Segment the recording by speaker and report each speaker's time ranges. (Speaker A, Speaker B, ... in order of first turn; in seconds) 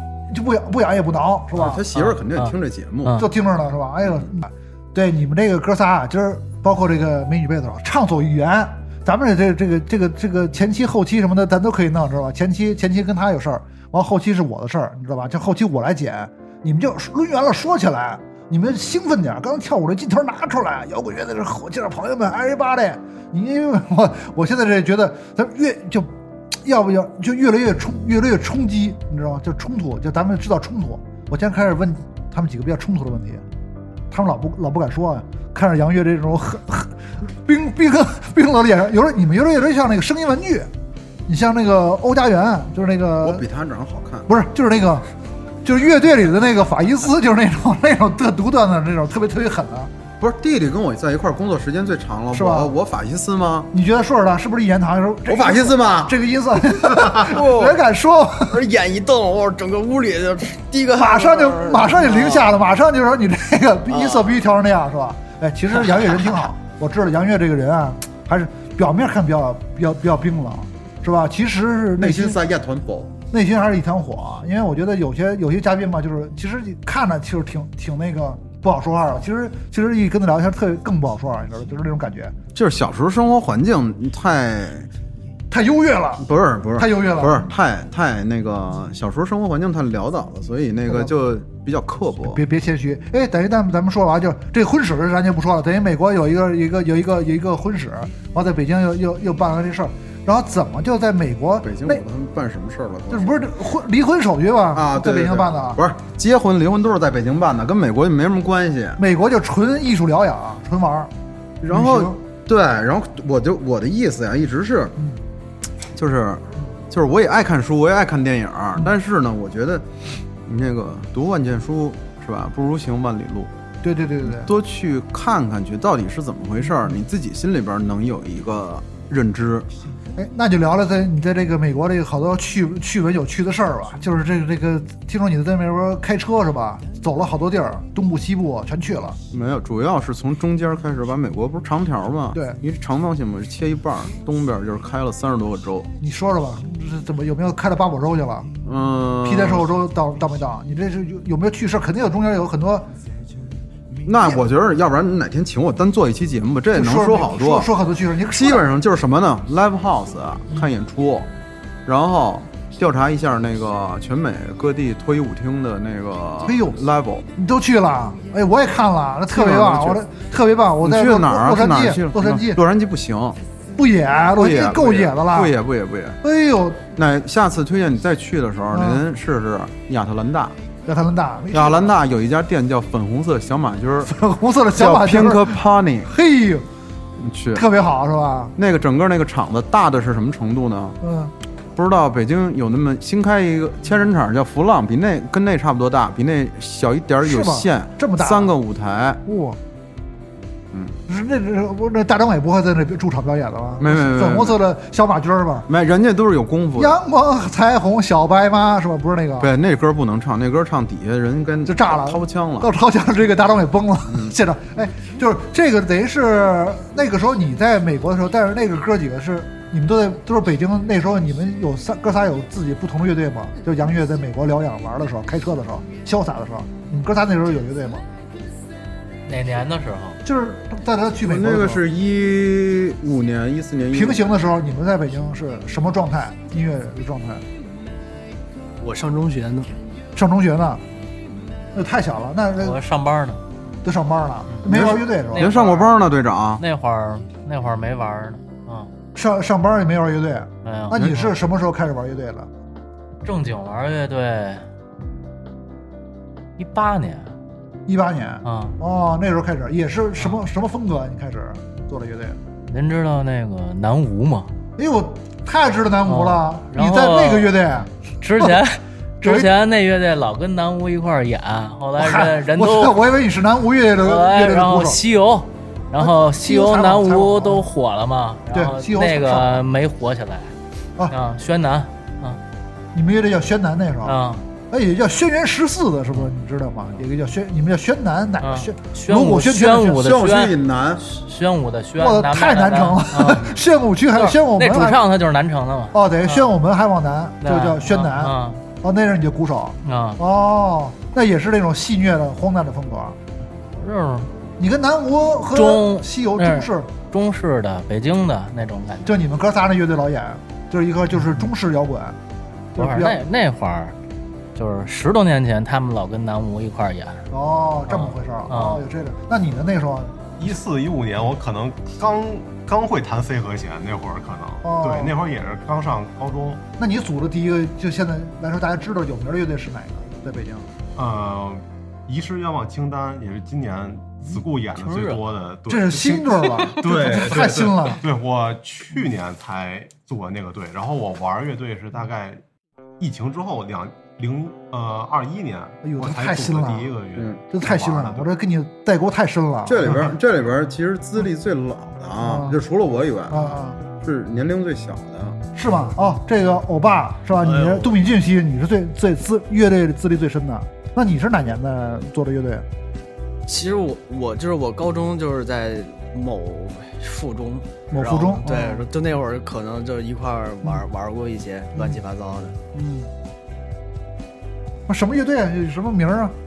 Speaker A: 0.3-1.8, 3.2-26.1, 26.6-33.4, 34.1-40.7, 41.3-43.5, 44.3-45.0, 45.6-49.9, 52.3-52.7, 53.7-58.6, 61.0-72.4, 73.3-82.3, 85.5-86.2, 86.8-87.5, 92.3-102.0, 103.1-105.8, 109.0-111.1, 111.7-112.2, 123.8-124.5, 130.2-139.2, 146.0-148.5, 149.2-152.9, 156.7-158.7, 166.4-166.8, 167.4-172.6, 173.8-175.6, 176.2-176.8, 178.7-179.0, 180.9-181.9, 184.1-186.6, 187.5-188.5, 191.0-191.3, 197.2-198.5, 199.3-199.6, 201.1-205.7, 206.8-209.5, 211.7-228.0, 230.2-231.8, 233.9-237.4, 240.2-240.8, 241.7-242.8, 243.8-245.5, 249.1-252.5, 257.9-262.4, 264.8-268.6, 269.2-269.5, 272.0-275.0, 276.0-277.7, 278.5-279.6, 282.9-284.2, 284.7-290.1, 292.0-295.0, 295.9-303.2, 304.6-306.9, 309.1-312.2, 312.8-313.2, 317.3-320.1, 324.6-325.1, 326.8-330.7, 335.7-338.0, 345.8-346.9, 347.5-350.1, 352.2-352.6, 353.3-353.8, 355.6-362.7, 367.9-368.9, 372.7-373.1, 374.9-376.4
Speaker B: 1.6-3.2, 43.2-44.3, 50.2-53.7, 55.3-56.2, 56.8-57.4, 72.0-73.1, 82.5-84.9, 86.2-92.4, 101.6-103.4, 104.7-109.0, 111.6-115.0, 115.9-119.9, 120.5-123.5, 124.2-129.7, 139.3-145.9, 148.6-149.7, 154.1-157.7, 158.3-161.3, 161.9-167.3, 169.3-170.0, 170.8-173.4, 174.4-176.2, 177.0-180.6, 181.5-184.1, 184.7-186.1, 187.2-187.7, 188.6-191.0, 191.8-199.2, 203.8-204.6, 205.7-207.0, 209.4-212.7, 214.1-214.3, 231.2-234.4, 244.6-246.6, 290.0-291.0, 349.7-353.4, 354.0-355.4
Speaker C: 1.7-2.5, 229.3-230.2, 242.6-243.4, 244.5-246.0, 246.6-248.9, 250.6-251.4, 253.2-254.6, 256.6-257.3, 258.4-258.8, 260.2-260.4, 262.7-264.5, 266.1-267.6, 268.2-273.0, 274.0-280.5, 281.1-282.4, 284.0-284.4, 288.4-296.6, 297.4-298.6, 299.9-300.2, 303.8-304.3, 305.5-309.2, 312.8-313.9, 314.6-317.2, 317.9-318.9, 334.8-335.2
Speaker D: 57.3-57.8, 58.5-62.5, 63.9-64.4, 238.8-239.7, 357.4-358.0, 363.5-372.6
Speaker E: 320.4-326.6, 331.0-342.4, 343.0-348.3